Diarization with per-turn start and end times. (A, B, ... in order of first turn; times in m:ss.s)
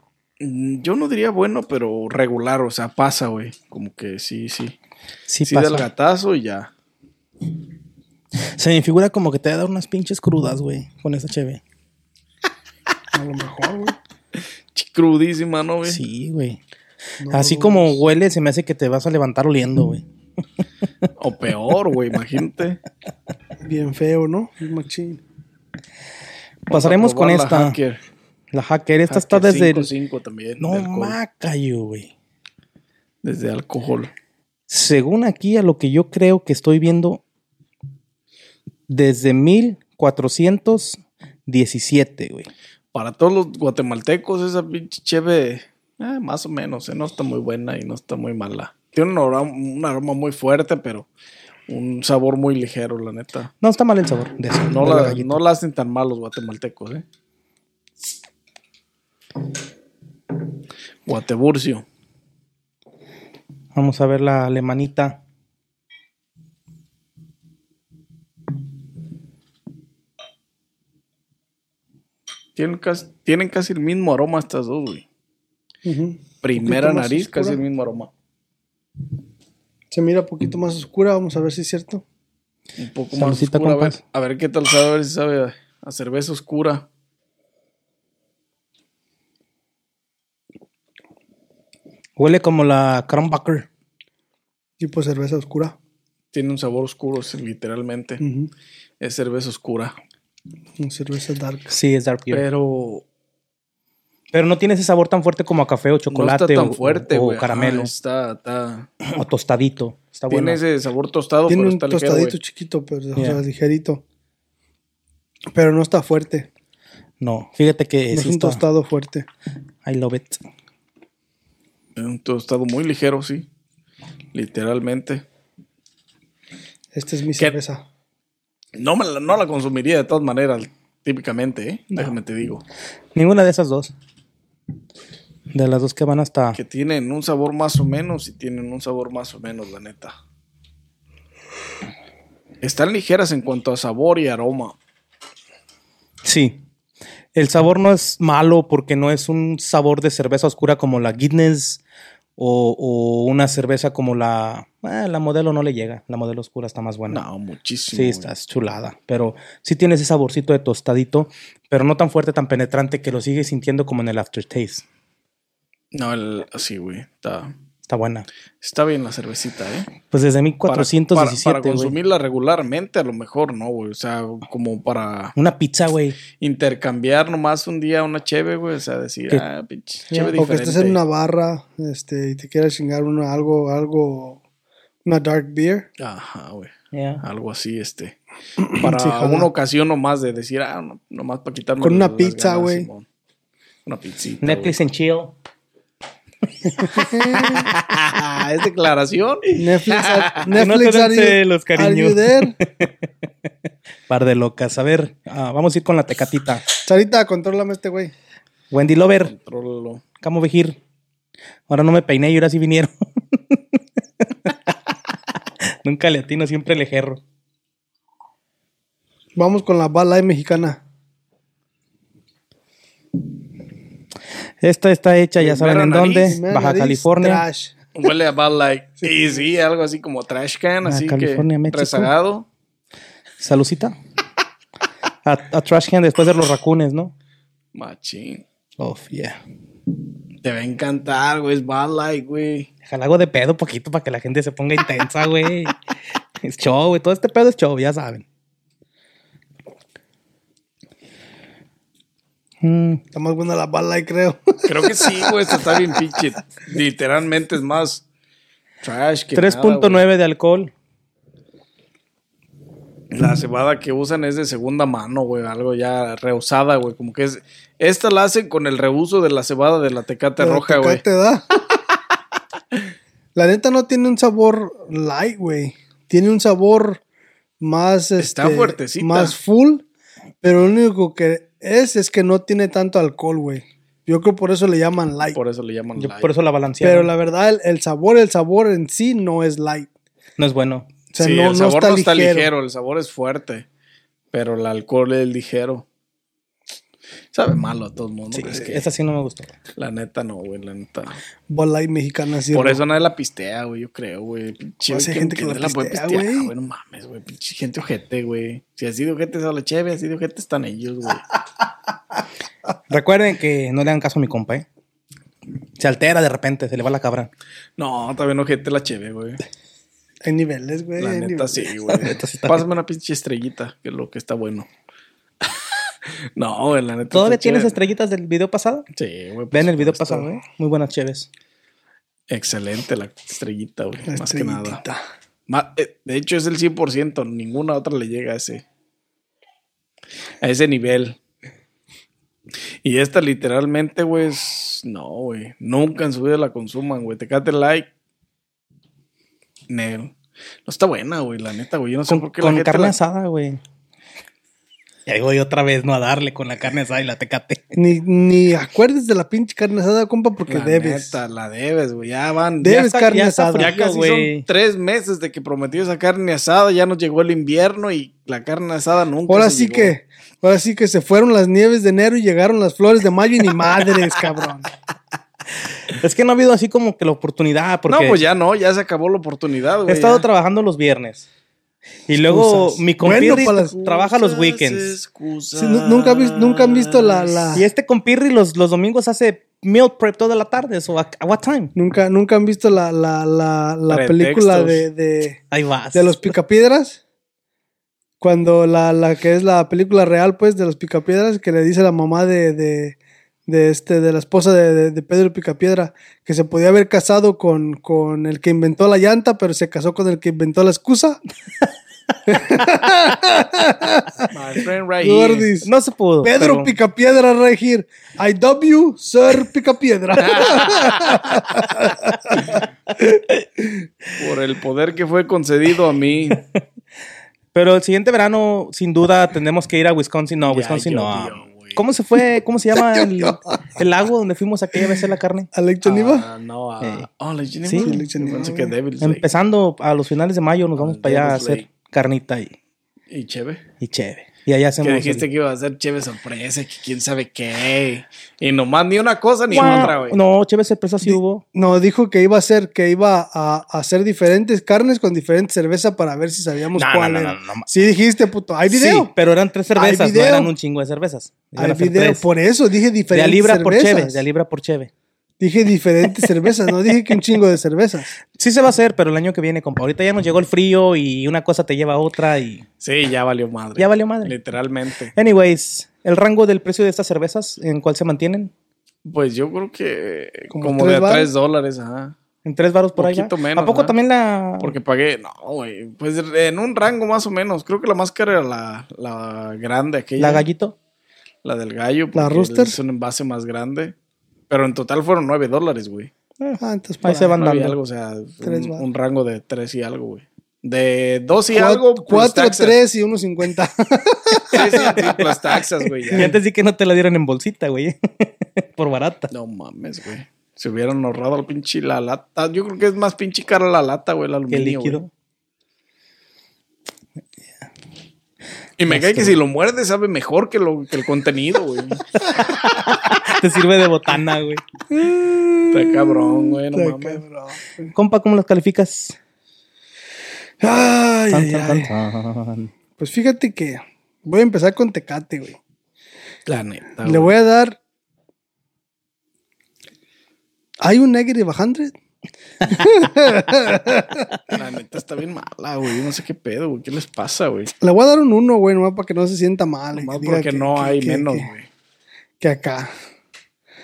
0:00.4-0:04.7 A
0:05.3-0:05.9 B
0:05.4-0:06.7 A
0:08.6-0:11.6 B
0:13.1-0:14.0 C
0:14.7-0:16.0 A
0:15.8-0:16.6 B
0:17.2-0:18.0 C
0:17.3-0:20.0 B
0:21.2-0:22.8 A
0:23.6-0:25.2 C
0:26.7-0:27.8 B
0:26.7-0:28.0 A
0:28.5-0:29.9 B
0:29.1-0:31.2 A
0:30.6-0:32.1 B
0:33.2-0:34.1 A
0:34.7-0:37.2 B
0:38.9-0:42.5 B
0:42.9-0:51.1 A
0:51.7-0:53.5 A
0:53.6-0:55.4 B
0:54.7-0:57.0 A
1:01.0-1:01.8 A
1:03.7-1:05.2 B
1:12.6-1:15.0 A
1:15.8-1:17.6 C
1:16.4-1:18.1 A
1:19.9-1:22.0 C
1:22.8-1:26.9 A
1:23.1-1:24.0 B
1:32.2-1:33.7 B
1:34.8-1:35.7 C
1:36.3-1:38.2 A
1:38.2-1:38.5 C
1:39.0-1:39.9 A
1:40.8-1:41.7 C
1:41.7-1:42.4 B
1:42.3-1:43.0 A
1:44.3-1:47.9 B
1:46.1-1:48.9 A
1:49.0-1:50.6 B
1:50.3-1:52.4 A
1:51.5-1:54.0 C
1:53.2-1:53.4 B
1:55.5-1:56.5 C
1:57.2-1:58.6 B
1:58.1-1:59.2 C
1:59.8-2:00.4 B
2:02.0-2:03.4 A
2:04.3-2:05.2 A
2:06.9-2:07.8 C
2:08.7-2:12.6 A
2:13.1-2:13.9 B
2:15.5-2:16.6 B
2:16.6-2:20.1 A
2:22.6-2:24.8 A
2:26.2-2:26.6 B
2:27.3-2:31.8 B
2:32.4-2:37.2 B
2:37.1-2:38.3 A
2:37.9-2:44.8 B
2:45.9-2:47.5 A
2:47.8-2:48.3 B
2:48.6-2:49.9 A
2:50.1-2:51.9 B
2:50.7-2:55.4 A
2:55.4-2:56.2 B
2:56.4-3:01.0 A
3:00.1-3:04.4 C
3:05.0-3:05.9 C
3:06.0-3:08.2 A
3:06.9-3:07.2 B
3:08.6-3:09.5 C
3:08.8-3:13.0 A
3:11.8-3:12.9 C
3:13.8-3:14.8 A
3:14.4-3:15.3 B
3:16.7-3:17.7 C
3:17.4-3:20.6 A
3:19.6-3:22.6 C
3:20.6-3:22.9 B
3:24.1-3:26.6 B
3:26.8-3:28.1 C
3:28.7-3:29.3 B
3:29.3-3:30.0 A
3:30.2-3:30.8 B
3:31.7-3:34.9 B
3:35.6-3:37.2 B
3:39.4-3:40.8 C
3:44.6-3:47.4 B
3:45.4-3:46.4 A
3:46.2-3:47.7 C
3:47.9-3:52.4 A
3:49.0-3:49.4 C
3:50.8-3:52.1 B
3:53.4-3:54.0 B
3:55.2-3:57.1 B
3:57.7-3:58.4 A
3:58.8-3:59.4 B
4:00.4-4:02.7 A
4:02.8-4:05.8 B
4:06.4-4:08.2 B
4:12.6-4:13.0 B
4:13.1-4:16.0 C
4:14.6-4:18.0 A
4:18.8-4:20.0 A
4:19.3-4:20.7 B
4:23.1-4:31.0 A
4:30.4-4:31.4 C
4:33.4-4:37.0 C
4:37.6-4:39.8 C
4:38.2-4:39.3 A
4:40.4-4:45.4 C
4:45.3-4:46.3 A
4:46.0-4:47.1 B
4:46.8-4:49.9 C
4:50.4-4:50.9 B
4:51.1-4:52.5 C
4:51.2-4:53.6 A
4:54.3-4:55.8 A
4:57.3-4:58.8 A
4:58.3-4:59.5 B
4:59.8-5:01.2 A
5:01.5-5:02.8 C
5:02.5-5:11.2 A
5:04.9-5:06.5 C
5:12.9-5:14.6 B
5:15.8-5:17.3 B
5:17.8-5:19.4 A
5:20.2-5:21.8 C
5:21.0-5:24.7 A
5:21.9-5:22.6 B
5:25.4-5:27.8 A
5:27.1-5:28.9 B
5:29.0-5:30.3 A
5:29.5-5:31.3 B
5:32.3-5:34.8 A
5:34.1-5:35.0 C
5:35.5-5:38.6 A
5:40.4-5:41.2 A
5:42.8-5:47.9 A
5:49.7-5:50.1 A
5:50.6-5:53.0 A
5:52.1-5:53.6 B
5:55.0-5:57.7 B
5:57.7-6:01.2 C
6:00.5-6:02.8 A
6:02.6-6:03.7 C
6:02.7-6:04.4 B
6:03.5-6:09.9 A
6:09.3-6:14.7 C
6:15.9-6:18.2 B
6:17.9-6:20.2 A
6:19.9-6:21.2 B
6:22.1-6:25.0 B
6:22.2-6:23.7 C
6:23.0-6:27.5 A
6:25.5-6:27.7 C
6:27.5-6:31.7 B
6:31.7-6:35.4 C
6:33.9-6:34.8 A
6:35.5-6:36.3 B
6:35.9-6:37.0 C
6:38.2-6:51.2 C
6:52.2-6:54.3 C
6:54.3-6:55.6 A
6:55.0-6:55.7 C
6:55.6-6:56.7 B
6:56.2-7:02.6 C
7:00.2-7:01.2 A
7:04.2-7:06.4 A
7:07.5-7:15.5 B
7:10.5-7:11.8 A
7:12.8-7:13.4 C
7:15.5-7:16.3 C
7:15.8-7:19.2 A
7:16.8-7:17.1 B
7:17.6-7:18.0 B
7:17.8-7:18.7 C
7:19.0-7:22.5 B
7:20.8-7:21.7 A
7:23.1-7:23.6 A
7:23.8-7:25.2 B
7:24.8-7:30.2 A
7:29.5-7:31.4 B
7:29.5-7:29.9 C
7:31.0-7:39.1 C
7:36.7-7:37.7 B
7:38.7-7:42.2 B
7:39.7-7:40.5 C
7:41.6-7:44.2 C
7:43.1-7:44.9 B
7:45.4-7:48.2 C
7:48.3-7:52.6 B
7:52.8-7:55.1 A
7:53.8-7:54.3 B
7:55.1-7:58.5 B
7:59.0-8:02.2 A
8:00.5-8:01.3 C
8:02.4-8:04.8 B
8:03.0-8:03.9 A
8:04.6-8:10.4 A
8:10.2-8:10.7 B
8:11.4-8:13.9 A
8:12.1-8:12.8 C
8:14.5-8:16.1 A
8:16.4-8:17.8 B
8:16.6-8:17.4 C
8:17.4-8:22.8 A
8:18.4-8:18.8 C
8:21.5-8:25.3 C
8:24.5-8:26.3 A
8:24.7-8:25.1 B
8:26.1-8:29.3 B
8:29.3-8:35.0 A
8:34.5-8:35.1 B
8:38.8-8:42.0 A
8:38.9-8:39.4 B
8:42.6-8:44.6 B
8:44.9-8:47.9 C
8:45.7-8:47.2 A
8:47.9-8:49.2 B
8:50.6-8:51.9 C
8:51.3-8:52.7 B
8:53.0-8:55.6 C
8:56.4-8:57.3 A
8:57.0-8:57.8 C
9:00.8-9:01.9 C
9:02.6-9:04.4 C
9:04.5-9:07.7 A
9:07.8-9:11.5 C
9:09.9-9:11.7 A
9:12.4-9:12.9 C